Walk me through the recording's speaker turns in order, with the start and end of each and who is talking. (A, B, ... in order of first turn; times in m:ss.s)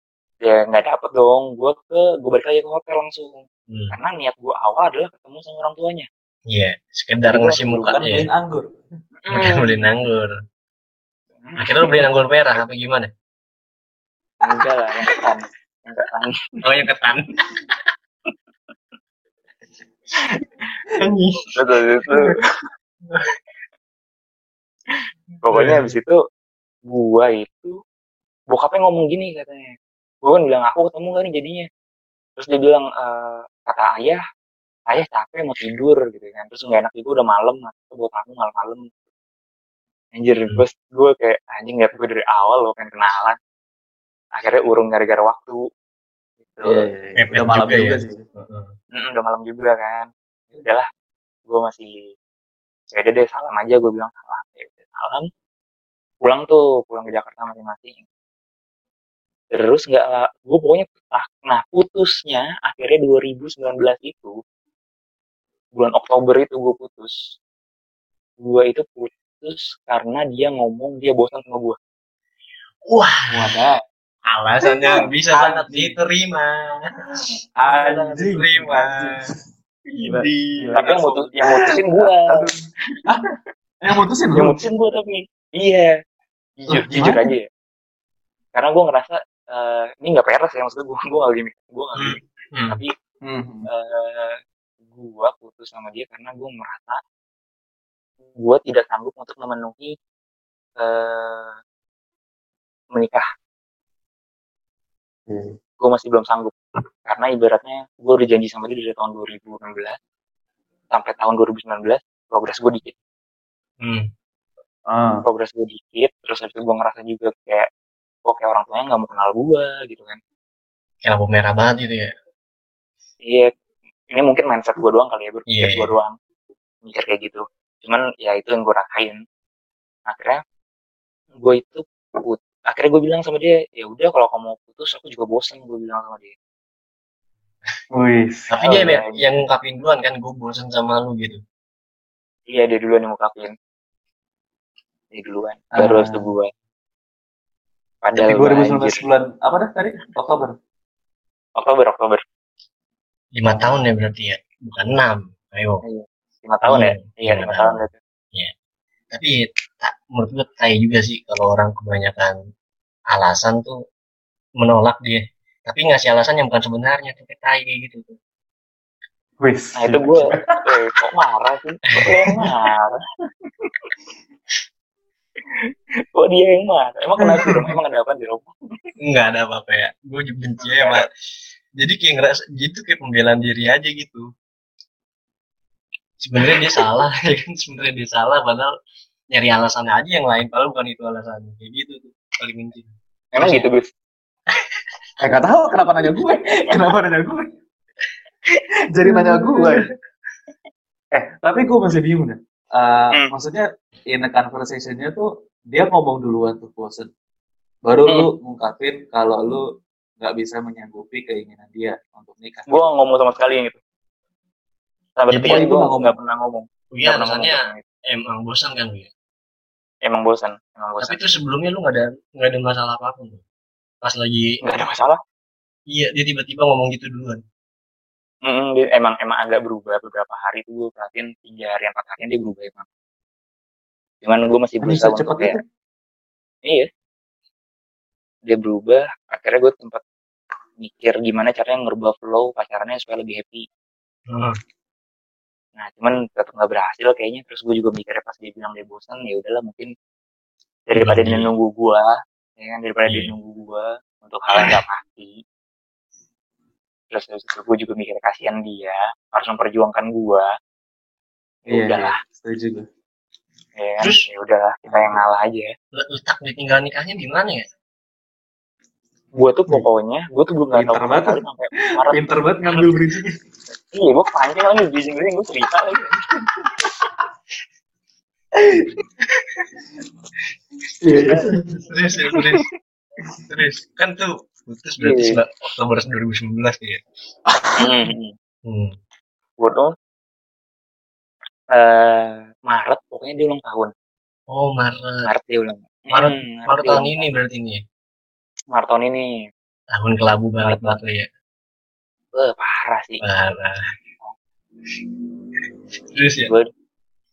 0:00.4-0:06.1 A
0:03.7-0:04.0 B
0:06.5-0:08.3 B
0:07.3-0:07.9 A
0:07.7-0:08.7 C
0:09.2-0:09.8 A
0:09.3-0:10.3 B
0:11.4-0:12.0 A
0:11.6-0:13.1 B
0:14.4-0:16.5 A
0:16.6-0:17.7 B
0:21.0-0:21.8 B
0:21.5-0:22.4 A
0:23.1-0:23.4 B
0:24.9-0:26.2 A
0:25.5-0:25.9 B
0:26.9-0:27.7 A
0:28.5-0:29.7 A
0:30.2-0:31.7 A
0:32.4-0:34.2 A
0:34.9-0:38.8 A
0:40.1-0:43.4 A
0:44.4-0:45.6 A
0:46.5-0:46.8 A
0:46.6-0:48.2 C
0:47.2-0:48.7 B
0:48.9-0:50.8 A
0:51.5-0:51.9 A
0:52.9-0:55.3 A
0:56.2-0:58.0 A
0:59.5-1:04.3 A
1:05.8-1:07.2 A
1:08.4-1:11.8 A
1:12.8-1:13.5 B
1:13.3-1:13.8 C
1:14.3-1:19.2 B
1:14.6-1:15.9 C
1:17.6-1:19.3 C
1:19.9-1:21.0 B
1:20.0-1:23.3 C
1:20.7-1:22.4 A
1:23.8-1:24.6 C
1:24.3-1:25.9 A
1:26.6-1:27.4 A
1:26.7-1:27.3 C
1:28.5-1:32.9 A
1:32.0-1:32.8 B
1:33.2-1:33.7 C
1:33.7-1:34.4 A
1:34.9-1:37.0 A
1:38.4-1:39.9 A
1:40.8-1:41.5 A
1:42.9-1:43.2 A
1:45.3-1:45.6 C
1:45.8-1:50.0 A
1:50.9-1:52.9 A
1:53.8-1:54.1 B
1:54.9-1:55.2 C
1:55.2-1:57.7 A
1:58.2-2:00.2 A
2:01.0-2:02.1 B
2:03.2-2:03.5 A
2:04.1-2:06.1 A
2:05.5-2:05.9 B
2:06.8-2:09.2 A
2:10.1-2:10.4 A
2:11.4-2:16.3 A
2:17.9-2:18.5 C
2:18.5-2:21.4 B
2:18.6-2:19.2 A
2:22.5-2:23.5 A
2:25.1-2:26.5 A
2:25.7-2:26.3 C
2:28.0-2:29.0 A
2:28.2-2:30.5 C
2:31.6-2:32.2 A
2:33.3-2:35.8 B
2:35.8-2:38.0 A
2:36.6-2:38.5 B
2:39.1-2:42.4 B
2:43.1-2:43.8 B
2:44.6-2:48.2 B
2:49.4-2:50.6 C
2:49.7-2:53.0 A
2:52.0-2:52.3 B
2:56.1-2:58.5 A
2:59.0-3:01.0 B
3:00.6-3:01.0 A
3:01.8-3:04.2 B
3:06.2-3:08.7 B
3:09.3-3:13.6 B
3:13.3-3:13.9 A
3:15.2-3:17.5 C
3:18.9-3:19.9 C
3:21.1-3:27.1 C
3:27.8-3:29.6 C
3:30.2-3:32.7 C
3:32.7-3:33.8 A
3:35.2-3:37.8 A
3:35.3-3:35.6 B
3:35.4-3:36.2 C
3:36.9-3:39.1 B
3:40.0-3:41.2 A
3:41.0-3:43.4 B
3:44.0-3:44.6 B
3:44.6-3:45.2 A
3:45.9-3:47.4 B
3:48.4-3:52.8 A
3:54.2-3:55.6 A
3:54.8-3:55.6 C
3:58.5-4:00.0 A
4:00.8-4:03.6 A
4:04.3-4:04.6 B
4:05.8-4:09.9 A
4:10.9-4:15.4 A
4:11.0-4:11.5 B
4:13.0-4:13.3 B
4:14.5-4:14.8 B
4:17.1-4:20.5 A
4:21.7-4:22.2 A
4:21.7-4:22.9 C
4:23.8-4:25.7 A
4:24.8-4:25.2 C
4:25.9-4:27.6 B
4:29.4-4:32.9 A
4:30.7-4:31.4 C
4:32.0-4:33.3 C
4:33.9-4:36.5 A
4:38.6-4:38.9 C
4:41.0-4:41.8 C
4:41.3-4:42.6 B
4:43.5-4:47.0 B
4:45.0-4:45.4 A
4:47.8-4:48.3 A
4:48.6-4:48.9 B
4:49.6-4:49.9 A
4:51.7-4:53.9 A
4:54.5-4:55.3 B
4:55.2-4:57.3 A
4:56.1-4:57.8 B
4:58.7-4:59.3 A
4:59.9-5:01.3 B
5:00.6-5:01.0 A
5:02.3-5:03.2 A
5:03.2-5:03.8 B
5:06.1-5:06.5 B